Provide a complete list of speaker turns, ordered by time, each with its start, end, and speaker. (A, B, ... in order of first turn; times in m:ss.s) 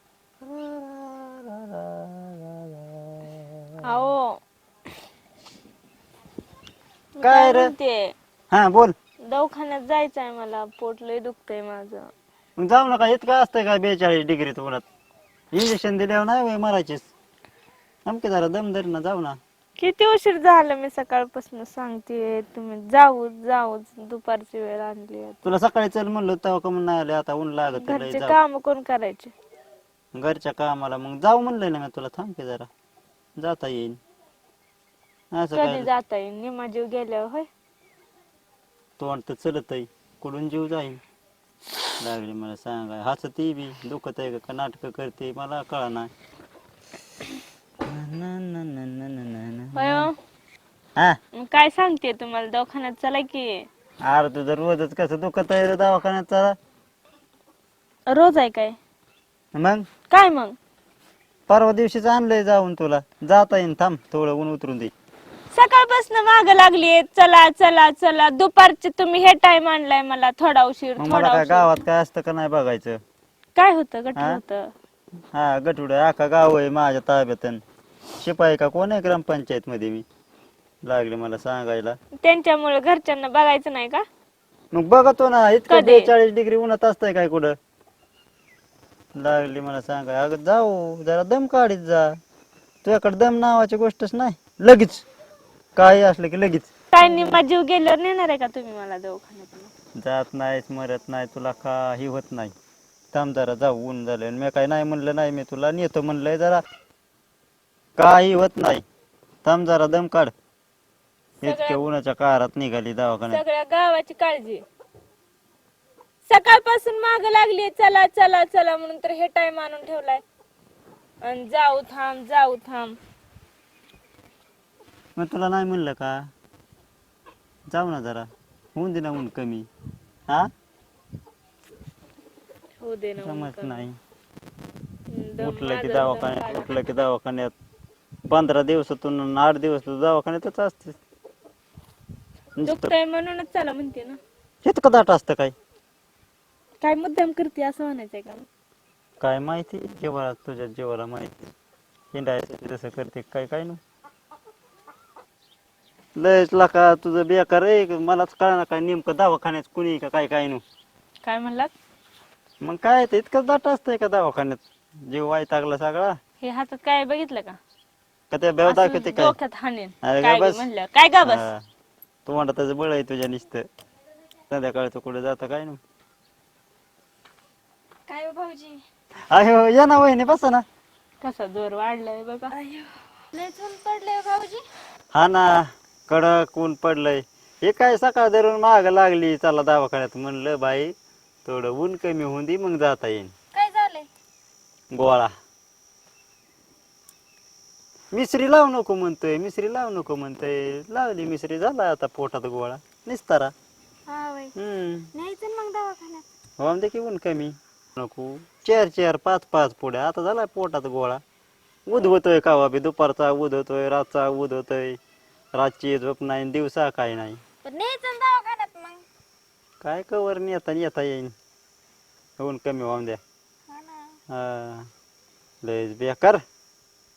0:00.4-0:03.8 A
0:03.8-0:04.4 B
0:07.2-0:08.1 B
0:07.2-0:07.7 A
0:08.5-0:08.9 A
0:09.3-0:12.1 B
0:12.6-0:14.8 A
0:15.5-0:17.1 A
0:18.1-0:19.4 A
0:19.8-0:25.5 B
0:25.4-0:28.4 A
0:27.7-0:29.3 B
0:30.1-0:32.7 A
0:33.4-0:34.0 A
0:35.3-0:35.9 A
0:35.6-0:37.5 B
0:39.0-0:41.0 A
0:42.0-0:46.1 A
0:47.8-0:50.1 A
0:49.8-0:50.2 B
0:51.3-0:53.7 B
0:54.0-0:56.6 A
0:58.1-0:58.8 B
0:59.6-0:59.9 A
1:00.1-1:00.6 B
1:01.5-1:04.9 A
1:05.5-1:11.8 B
1:11.0-1:13.0 A
1:13.6-1:14.7 B
1:15.3-1:17.6 A
1:18.2-1:20.0 A
1:20.8-1:22.0 A
1:22.2-1:24.0 B
1:24.7-1:27.6 A
1:25.7-1:26.1 B
1:29.2-1:32.2 A
1:32.8-1:35.0 A
1:35.8-1:36.7 A
1:36.9-1:39.7 B
1:40.0-1:42.5 A
1:43.1-1:46.6 A
1:48.0-1:48.8 A
1:49.4-1:50.3 A
1:51.4-1:51.9 B
1:51.4-1:53.4 A
1:53.3-1:54.6 B
1:56.3-2:00.2 B
2:01.2-2:03.0 B
2:05.2-2:06.3 A
2:07.7-2:09.7 A
2:12.8-2:13.9 B
2:13.2-2:14.0 A
2:15.1-2:16.7 B
2:15.4-2:17.5 A
2:18.3-2:21.0 A
2:22.6-2:22.9 A
2:22.6-2:24.2 B
2:24.6-2:25.5 A
2:26.8-2:28.4 B
2:29.2-2:31.3 A
2:32.1-2:33.8 A
2:36.2-2:40.6 A
2:41.2-2:41.7 B
2:42.6-2:46.2 A
2:46.4-2:47.6 B
2:48.3-2:49.4 A
2:48.7-2:51.4 B
2:50.0-2:50.6 A
2:51.2-2:51.6 A
2:52.3-2:53.7 A
2:54.5-2:55.8 A
2:58.1-2:58.8 C
2:59.3-3:00.6 A
3:01.2-3:02.6 B
3:02.5-3:04.6 C
3:05.1-3:10.9 A
3:11.4-3:13.3 A
3:13.5-3:14.1 C
3:14.9-3:15.3 A
3:18.1-3:23.5 A
3:24.1-3:24.5 C
3:24.6-3:25.1 A
3:25.1-3:26.2 C
3:26.6-3:31.2 A
3:31.9-3:35.0 A
3:35.5-3:37.4 A
3:37.6-3:39.0 C
3:39.8-3:41.3 A
3:42.4-3:43.2 A
3:43.7-3:44.1 C
3:44.3-3:44.9 A
3:45.6-3:46.4 A